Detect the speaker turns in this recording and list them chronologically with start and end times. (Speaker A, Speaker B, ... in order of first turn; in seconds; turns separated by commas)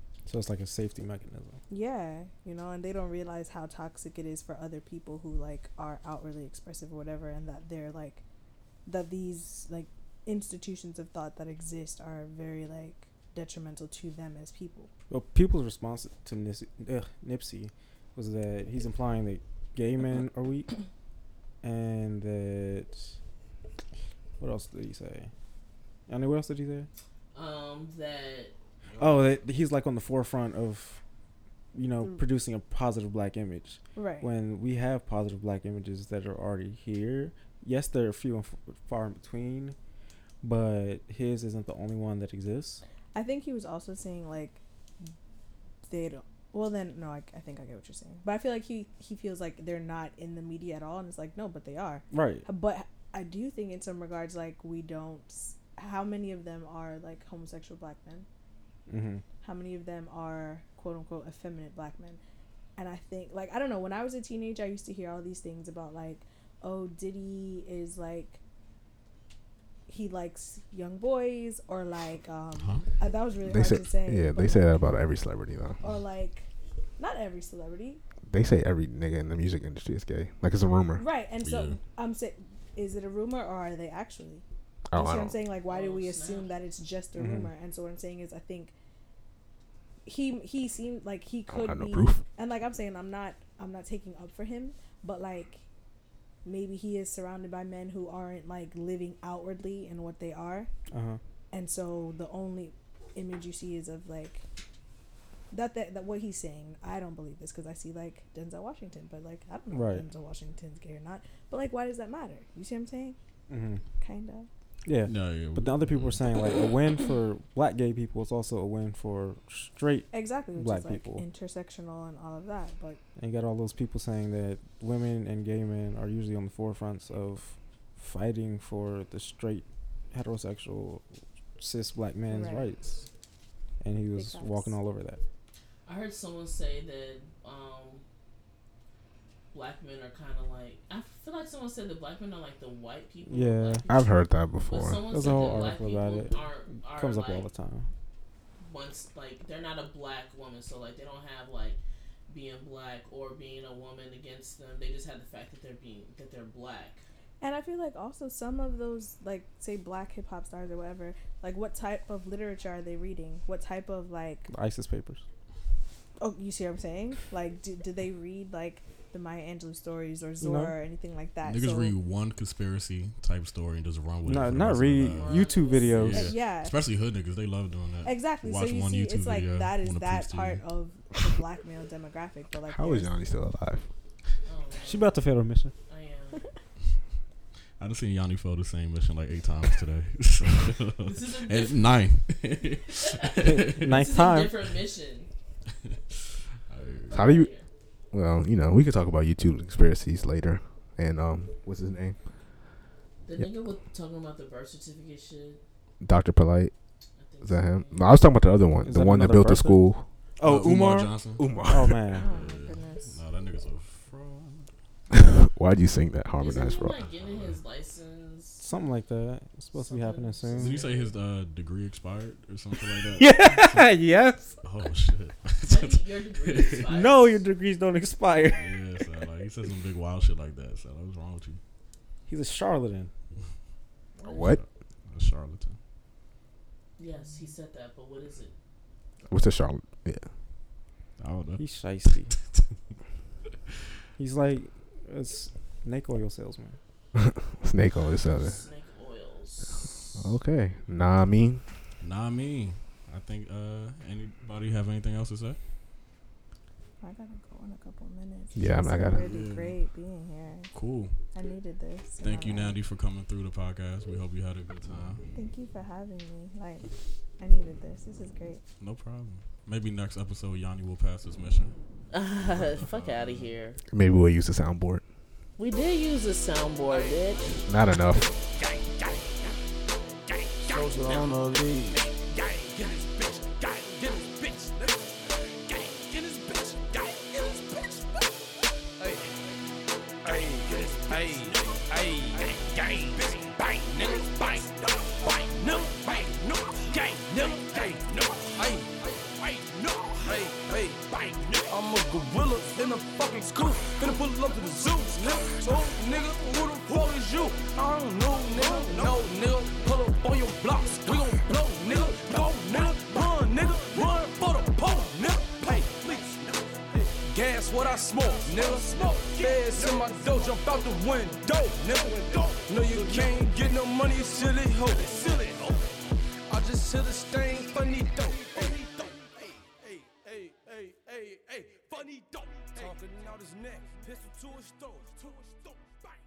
Speaker A: 0.3-1.6, Speaker B: 1.7-8.2, Speaker B: 8.9-14.9, Speaker A: 15.1-20.7, Speaker A: 21.6-23.1, Speaker A: 24.4-25.3, Speaker A: 26.1-26.9, Speaker C: 27.3-28.5, Speaker D: 28.9-29.3, Speaker A: 29.0-31.0, Speaker A: 31.7-39.8, Speaker B: 34.0-34.3, Speaker A: 40.4-42.8, Speaker B: 43.1-44.6, Speaker B: 45.9-58.3, Speaker A: 52.1-52.5, Speaker A: 58.9-59.2, Speaker B: 59.4-62.2, Speaker B: 62.8-68.4, Speaker B: 69.9-74.9, Speaker D: 72.6-72.8, Speaker E: 73.4-75.8, Speaker B: 75.8-78.0, Speaker E: 78.3-81.1, Speaker B: 81.0-88.7, Speaker D: 81.4-81.8, Speaker E: 84.9-85.4, Speaker C: 85.7-86.5, Speaker A: 87.2-87.5, Speaker B: 90.0-95.6, Speaker E: 91.5-92.2, Speaker B: 96.5-100.7, Speaker A: 100.9-101.2, Speaker B: 101.5-104.4, Speaker B: 105.5-113.2, Speaker A: 109.7-110.1, Speaker A: 113.5-113.8, Speaker B: 114.0-114.5, Speaker A: 114.8-121.2, Speaker D: 115.0-116.2, Speaker B: 120.1-123.0, Speaker A: 123.2-131.0, Speaker A: 131.6-133.1, Speaker B: 132.3-132.7, Speaker A: 133.8-135.2, Speaker B: 134.1-134.8, Speaker C: 135.9-138.0, Speaker C: 139.5-144.2, Speaker A: 143.3-143.9, Speaker E: 143.9-145.6, Speaker C: 144.7-147.5, Speaker A: 145.1-147.9, Speaker C: 148.6-157.0, Speaker B: 157.4-164.5, Speaker A: 164.5-165.2, Speaker B: 166.2-172.0, Speaker A: 170.4-170.8, Speaker D: 171.4-180.6, Speaker A: 174.2-176.3, Speaker C: 175.0-176.4, Speaker B: 175.3-176.8, Speaker B: 178.0-183.2, Speaker E: 182.7-183.9, Speaker C: 184.4-185.2, Speaker A: 184.8-185.7, Speaker C: 185.9-186.5, Speaker D: 187.8-194.0, Speaker C: 191.1-191.8, Speaker C: 193.0-195.3, Speaker A: 193.4-194.5, Speaker D: 196.7-197.2, Speaker C: 197.1-197.7, Speaker E: 197.1-197.5, Speaker E: 198.1-202.2, Speaker C: 203.2-205.6, Speaker E: 206.0-206.7, Speaker C: 207.2-208.1, Speaker E: 207.4-210.0, Speaker A: 208.8-212.3, Speaker D: 210.4-211.5, Speaker E: 211.4-212.0, Speaker B: 212.1-213.2, Speaker D: 212.2-214.7, Speaker E: 215.1-217.0, Speaker C: 216.4-218.6, Speaker D: 217.2-217.6, Speaker A: 218.6-220.8, Speaker C: 219.7-221.1, Speaker D: 220.6-223.9, Speaker A: 223.1-224.6, Speaker D: 224.6-226.9, Speaker C: 225.7-227.4, Speaker A: 226.9-228.8, Speaker D: 228.5-231.6, Speaker A: 232.3-233.1, Speaker E: 234.2-234.6, Speaker D: 234.3-235.8, Speaker C: 237.0-238.5, Speaker E: 239.3-240.2, Speaker D: 241.2-241.6, Speaker A: 241.6-242.3, Speaker A: 244.2-246.8, Speaker E: 247.2-248.6, Speaker C: 247.9-250.3, Speaker E: 250.2-251.6, Speaker D: 252.0-255.6, Speaker B: 257.0-260.7, Speaker E: 258.6-259.2, Speaker D: 259.2-259.8, Speaker D: 260.7-261.2, Speaker B: 261.3-262.8, Speaker D: 262.2-265.3, Speaker B: 265.3-268.6, Speaker D: 268.8-271.8, Speaker C: 272.1-273.8, Speaker D: 272.5-273.5, Speaker E: 273.9-275.0, Speaker C: 275.6-277.6, Speaker F: 276.9-279.6, Speaker E: 277.6-278.3, Speaker F: 280.3-288.3, Speaker F: 289.0-289.4, Speaker F: 290.2-325.9, Speaker F: 326.5-335.8